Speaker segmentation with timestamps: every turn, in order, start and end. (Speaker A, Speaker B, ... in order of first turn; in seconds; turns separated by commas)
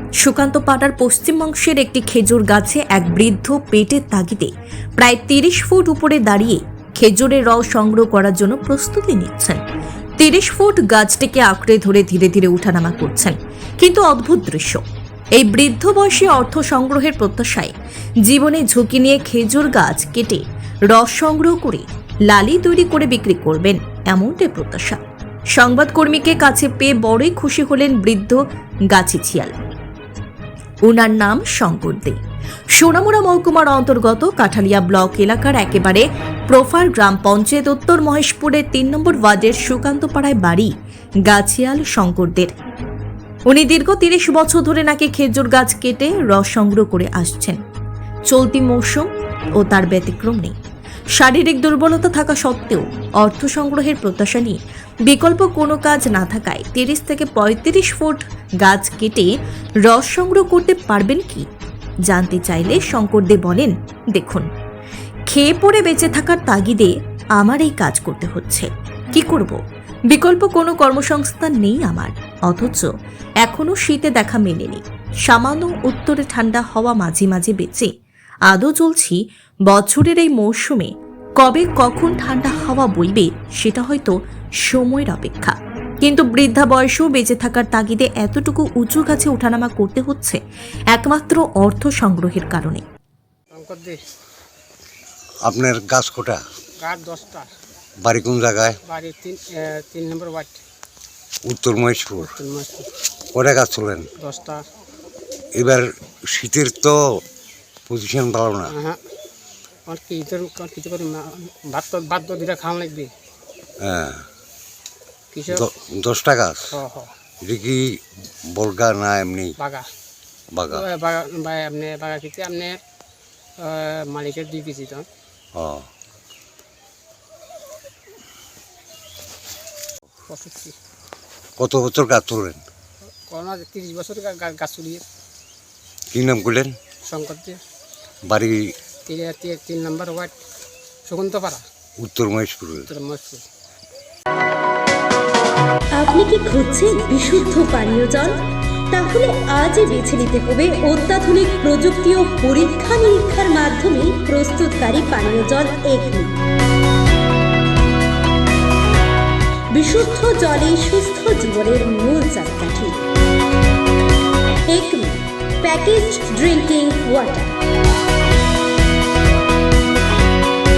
Speaker A: 0.2-9.6, Speaker A: 10.2-14.8, Speaker A: 15.4-17.7, Speaker A: 18.3-25.0, Speaker A: 25.6-28.4, Speaker A: 28.9-29.6, Speaker A: 30.9-32.2, Speaker A: 32.8-40.7, Speaker A: 41.3-42.5, Speaker A: 43.5-47.6, Speaker A: 48.3-49.1, Speaker A: 49.6-50.5, Speaker A: 51.2-59.3, Speaker A: 59.9-61.5, Speaker A: 62.1-64.5, Speaker A: 65.3-69.6, Speaker A: 70.1-72.9, Speaker A: 73.4-77.9, Speaker A: 78.5-79.2, Speaker A: 79.7-90.4, Speaker A: 90.9-92.8, Speaker B: 93.5-94.0, Speaker C: 95.5-96.4, Speaker B: 96.8-97.5, Speaker C: 98.0-98.8, Speaker B: 98.8-100.6, Speaker C: 101.5-102.3, Speaker B: 102.2-102.9, Speaker C: 103.3-104.1, Speaker B: 104.2-104.6, Speaker C: 105.5-107.2, Speaker C: 107.9-108.7, Speaker B: 108.7-109.0, Speaker B: 109.9-113.1, Speaker C: 113.8-114.2, Speaker B: 115.3-115.7, Speaker C: 115.5-116.8, Speaker B: 116.7-117.1, Speaker C: 117.4-118.0, Speaker C: 118.5-119.6, Speaker B: 119.6-119.9, Speaker C: 120.5-120.9, Speaker B: 120.7-122.8, Speaker B: 123.6-125.1, Speaker C: 125.5-125.9, Speaker B: 130.3-130.8, Speaker C: 131.6-132.6, Speaker B: 133.3-135.1, Speaker C: 136.1-136.8, Speaker B: 137.0-137.6, Speaker C: 138.2-138.7, Speaker B: 139.1-140.3, Speaker B: 141.1-141.6, Speaker C: 142.0-142.9, Speaker B: 142.9-143.4, Speaker D: 145.9-156.4, Speaker D: 159.7-163.0, Speaker D: 164.7-167.5